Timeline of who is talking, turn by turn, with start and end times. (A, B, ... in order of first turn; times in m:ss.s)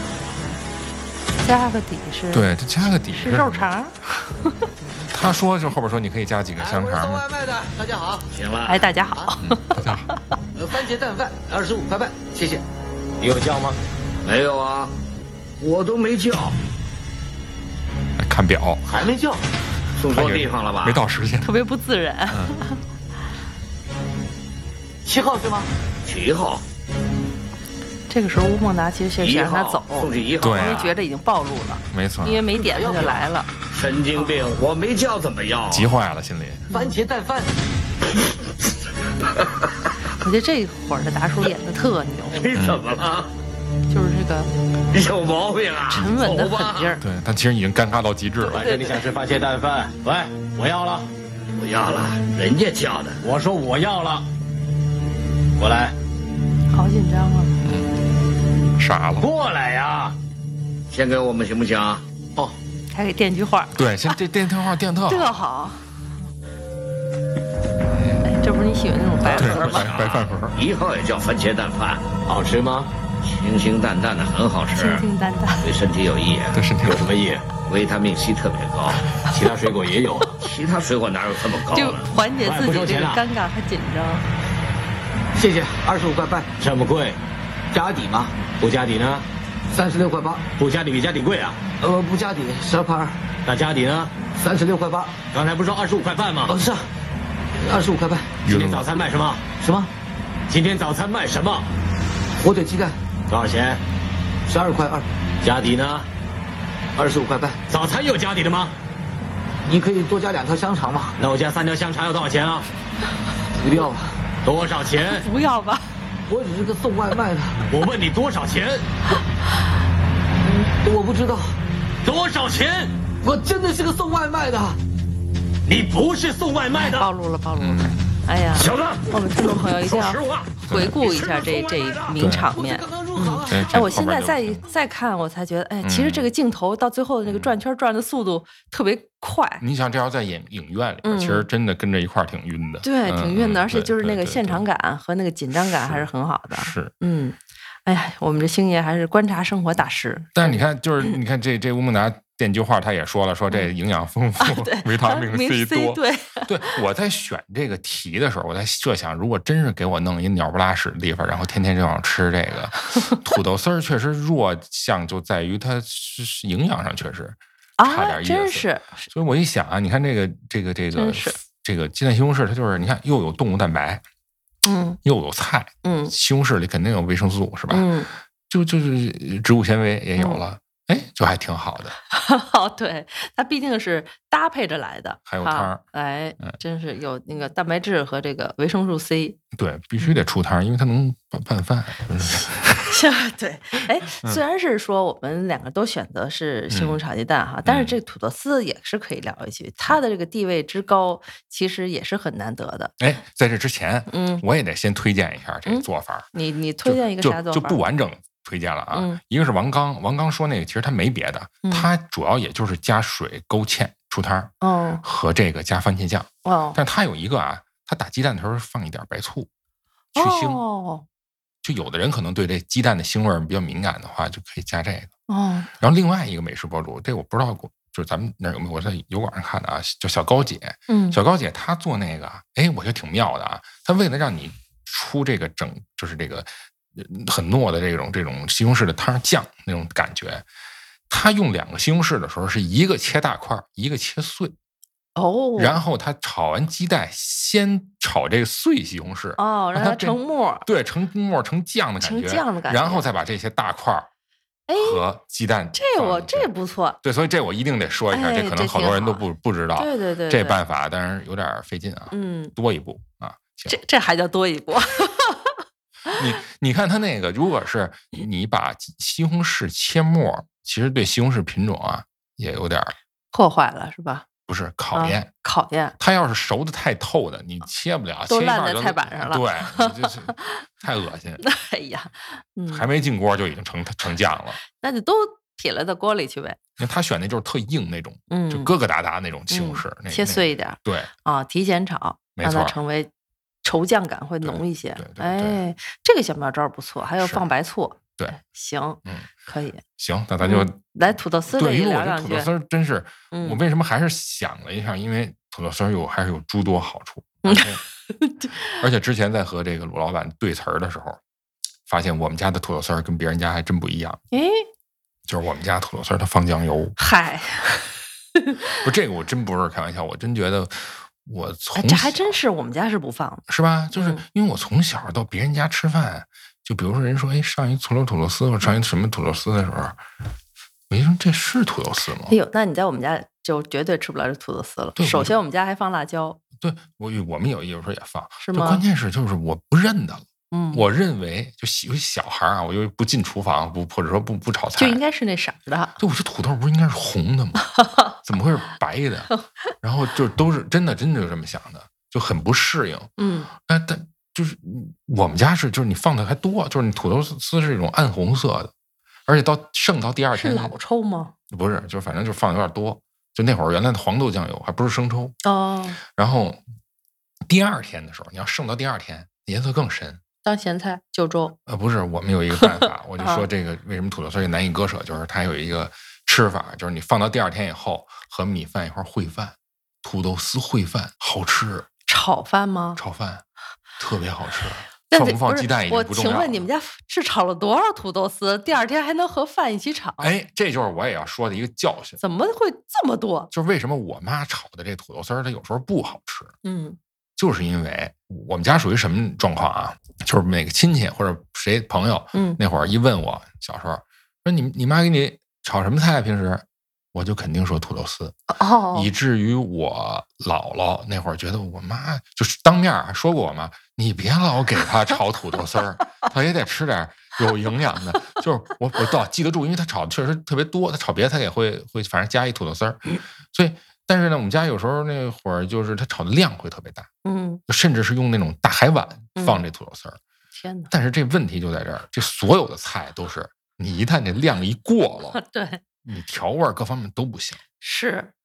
0:01.4-0:04.7 A
0:02.3-0:03.7 B
0:05.0-0:07.2 B
0:06.6-0:08.3 C
0:08.3-0:08.9 D
0:08.7-0:10.2 A
0:09.4-0:10.1 B
0:10.6-0:12.6 C
0:13.2-0:13.8 E
0:14.2-0:14.9 D
0:15.6-0:16.6 D
0:18.2-0:18.8 B
0:18.9-0:19.4 C
0:20.0-0:21.0 D
0:20.1-0:21.5 B
0:21.4-0:22.8 A
0:22.3-0:22.6 B
0:25.0-0:25.7 C
0:26.0-0:26.6 D
0:28.1-0:33.5 A
0:29.2-0:30.9 D
0:30.4-0:31.0 B
0:31.9-0:32.4 B
0:32.6-0:33.3 C
0:33.7-0:35.9 D
0:35.7-0:36.7 B
0:36.7-0:37.5 C
0:40.2-0:42.5 A
0:42.4-0:43.3 D
0:42.5-0:42.8 B
0:43.9-0:44.5 A
0:44.9-0:47.0 D
0:45.9-0:47.0 A
0:47.0-0:48.7 B
0:48.5-0:49.0 A
0:48.5-0:51.1 E
0:51.5-0:53.2 D
0:53.2-0:54.3 E
0:55.6-0:56.0 E
0:56.7-0:57.6 A
0:57.6-0:58.0 B
0:58.8-0:59.3 B
0:59.2-1:00.2 E
1:00.9-1:02.0 D
1:02.9-1:03.8 A
1:03.8-1:05.4 B
1:05.1-1:05.8 A
1:07.9-1:08.2 B
1:08.2-1:09.8 A
1:09.4-1:10.6 B
1:09.4-1:12.1 D
1:09.4-1:09.8 E
1:12.3-1:12.9 E
1:13.2-1:15.1 D
1:14.8-1:15.7 A
1:15.6-1:16.6 D
1:16.5-1:17.2 B
1:16.8-1:17.5 E
1:17.6-1:19.1 D
1:19.3-1:20.4 E
1:20.4-1:22.1 D
1:21.7-1:24.3 A
1:22.4-1:23.2 E
1:25.4-1:26.5 C
1:26.6-1:27.2 E
1:27.8-1:29.2 E
1:27.8-1:28.3 C
1:29.7-1:30.5 C
1:30.6-1:31.6 E
1:31.8-1:33.2 C
1:33.4-1:34.1 E
1:34.4-1:35.2 C
1:35.3-1:36.6 E
1:36.5-1:36.8 C
1:37.6-1:38.4 C
1:38.4-1:39.0 B
1:38.5-1:39.6 E
1:39.6-1:39.9 C
1:40.5-1:41.7 E
1:42.4-1:43.0 C
1:43.3-1:43.8 E
1:44.5-1:45.0 C
1:45.4-1:46.1 E
1:47.0-1:47.6 C
1:47.7-1:48.7 E
1:49.7-1:51.2 C
1:51.2-1:52.7 E
1:53.6-1:54.1 C
1:54.4-1:55.3 E
1:55.2-1:55.9 A
1:56.3-1:57.7 C
1:57.7-1:58.8 E
2:00.4-2:00.7 A
2:00.8-2:01.5 C
2:02.0-2:02.9 E
2:03.2-2:04.8 C
2:05.7-2:07.1 E
2:06.8-2:19.6 A
2:07.6-2:08.1 B
2:08.6-2:09.0 E
2:09.7-2:12.2 E
2:10.7-2:11.0 B
2:12.1-2:12.5 B
2:12.4-2:13.9 C
2:13.5-2:14.7 B
2:15.8-2:16.3 B
2:17.3-2:17.6 B
2:19.6-2:24.6 B
2:21.0-2:21.5 A
2:22.8-2:31.1 A
2:25.6-2:26.9 B
2:30.4-2:54.0 B
2:34.4-2:36.8 A
2:47.8-2:49.1 A
2:51.0-2:51.4 A
2:54.6-2:55.0 A
2:55.0-2:57.9 B
2:55.8-2:56.1 A
2:57.7-2:58.1 A
2:58.5-3:02.0 B
3:02.1-3:09.4 A
3:05.3-3:05.8 B
3:09.5-3:13.0 B
3:12.9-3:22.9 A
3:16.7-3:17.0 B
3:17.7-3:18.0 B
3:23.0-3:26.3 B
3:24.1-3:24.4 A
3:25.7-3:27.8 A
3:26.8-3:39.5 B
3:28.9-3:29.2 A
3:34.6-3:35.0 A
3:36.4-3:36.8 A
3:40.2-3:40.6 B
3:40.2-3:41.0 A
3:41.6-3:45.1 B
3:45.3-3:45.7 A
3:45.8-4:00.4 B
3:50.9-3:51.2 A
4:01.1-4:04.6 B
4:05.2-4:05.8 A
4:05.6-4:14.1 B
4:09.4-4:10.7 A
4:12.0-4:13.1 A
4:14.7-4:15.0 A
4:14.8-4:16.5 B
4:15.8-4:17.0 A
4:17.0-4:23.8 B
4:18.1-4:19.2 A
4:19.8-4:20.6 A
4:22.1-4:22.5 A
4:23.7-4:25.6 A
4:26.1-4:32.9 B
4:33.3-4:34.3 A
4:34.5-4:35.3 B
4:34.9-4:36.0 A
4:36.0-4:41.4 B
4:38.3-4:40.3 A
4:41.4-4:42.9 A
4:42.7-4:44.6 B
4:44.7-4:46.6 A
4:46.8-4:51.1 B
4:48.3-4:48.7 A
4:49.5-4:53.1 A
4:52.4-4:52.8 B
4:53.6-4:59.8 A
4:54.4-4:55.6 B
4:57.2-4:57.4 B
5:00.0-5:00.8 B
5:00.4-5:02.5 A
5:01.5-5:07.8 B
5:03.3-5:03.6 A
5:07.5-5:08.7 A
5:08.8-5:11.2 B
5:11.9-5:14.2 B
5:14.3-5:14.7 A
5:15.3-5:17.0 B
5:17.0-5:18.6 A
5:18.8-5:22.4 B
5:21.8-5:23.4 A
5:23.5-5:30.0 B
5:24.0-5:24.2 A
5:30.9-5:32.4 B
5:32.3-5:36.4 A
5:35.0-5:35.4 B
5:36.6-5:45.0 B
5:38.4-5:38.8 A
5:40.5-5:40.8 A
5:44.8-5:46.0 A
5:46.0-5:47.7 B
5:48.2-5:49.3 B
5:49.8-5:58.7 B
5:53.2-5:53.5 A
5:59.3-6:00.8 B
6:00.4-6:01.3 A
6:01.5-6:05.4 B
6:05.4-6:06.0 A
6:06.0-6:06.6 B
6:07.5-6:10.2 B
6:10.4-6:11.6 A
6:11.7-6:21.9 B
6:13.2-6:13.4 A
6:22.1-6:23.0 A
6:23.0-6:23.4 B
6:24.0-6:26.7 B
6:25.1-6:30.3 A
6:30.2-6:32.2 B
6:32.2-6:33.5 A
6:33.5-6:36.5 B
6:36.6-6:37.0 A
6:37.4-6:48.4 B
6:42.3-6:42.6 A
6:48.5-6:49.1 A
6:48.9-7:07.1 B
7:07.2-7:07.6 A
7:07.7-7:10.2 B
7:09.4-7:09.6 A
7:10.5-7:10.9 A
7:10.9-7:15.4 B
7:15.3-7:15.8 A
7:16.0-7:17.6 B
7:17.8-7:18.3 A